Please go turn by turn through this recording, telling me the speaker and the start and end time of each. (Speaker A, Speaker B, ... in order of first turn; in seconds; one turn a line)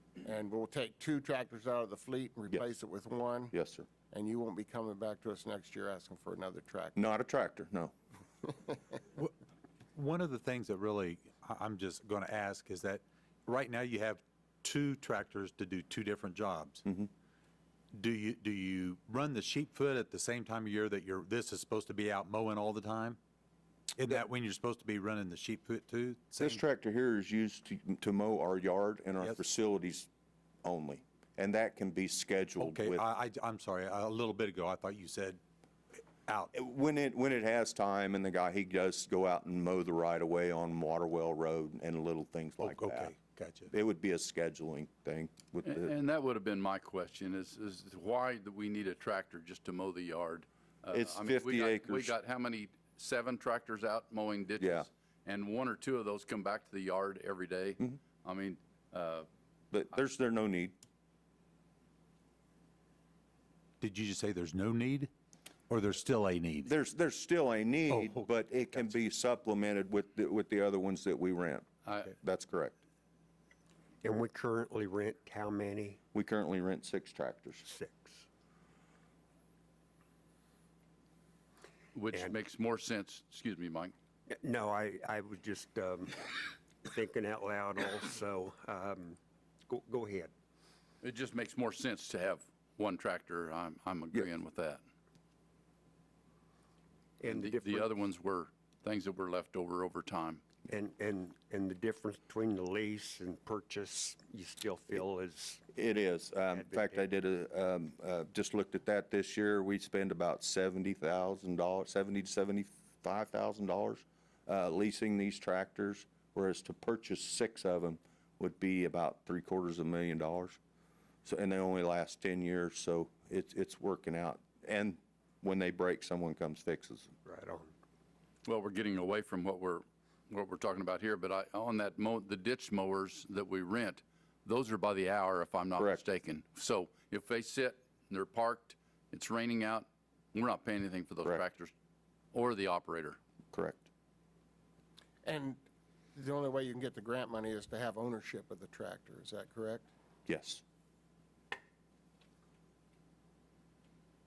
Speaker A: 0.2-3.5
Speaker B: 3.5-3.9
Speaker A: 4.1-7.0
Speaker B: 6.9-7.9
Speaker C: 9.9-16.8
Speaker C: 17.9-23.2
Speaker C: 23.9-26.6
Speaker B: 26.4-30.1
Speaker B: 30.6-33.0
Speaker C: 32.6-35.4
Speaker C: 36.2-36.5
Speaker B: 36.5-43.1
Speaker C: 42.6-43.7
Speaker B: 43.7-45.9
Speaker D: 45.6-59.3
Speaker B: 50.9-52.1
Speaker B: 54.6-54.9
Speaker B: 59.7-60.7
Speaker C: 63.8-65.1
Speaker C: 65.7-66.7
Speaker B: 66.6-71.7
Speaker C: 67.9-68.9
Speaker D: 71.8-72.1
Speaker B: 72.2-72.8
Speaker E: 74.0-76.0
Speaker B: 76.1-77.6
Speaker E: 77.6-78.3
Speaker D: 81.9-83.9
Speaker E: 82.1-82.4
Speaker E: 84.3-90.3
Speaker D: 91.0-94.8
Speaker E: 97.2-98.0
Speaker D: 97.3-100.4
Speaker E: 100.7-105.6
Speaker B: 105.7-120.6
Speaker E: 106.5-107.0
Speaker B: 121.2-127.1
Speaker E: 127.2-127.7
Speaker D: 128.4-141.7
Speaker D: 142.3-143.2
Speaker B: 143.5-143.8
Speaker A: 145.2-145.6
Speaker A: 146.1-149.9
Speaker B: 150.2-150.6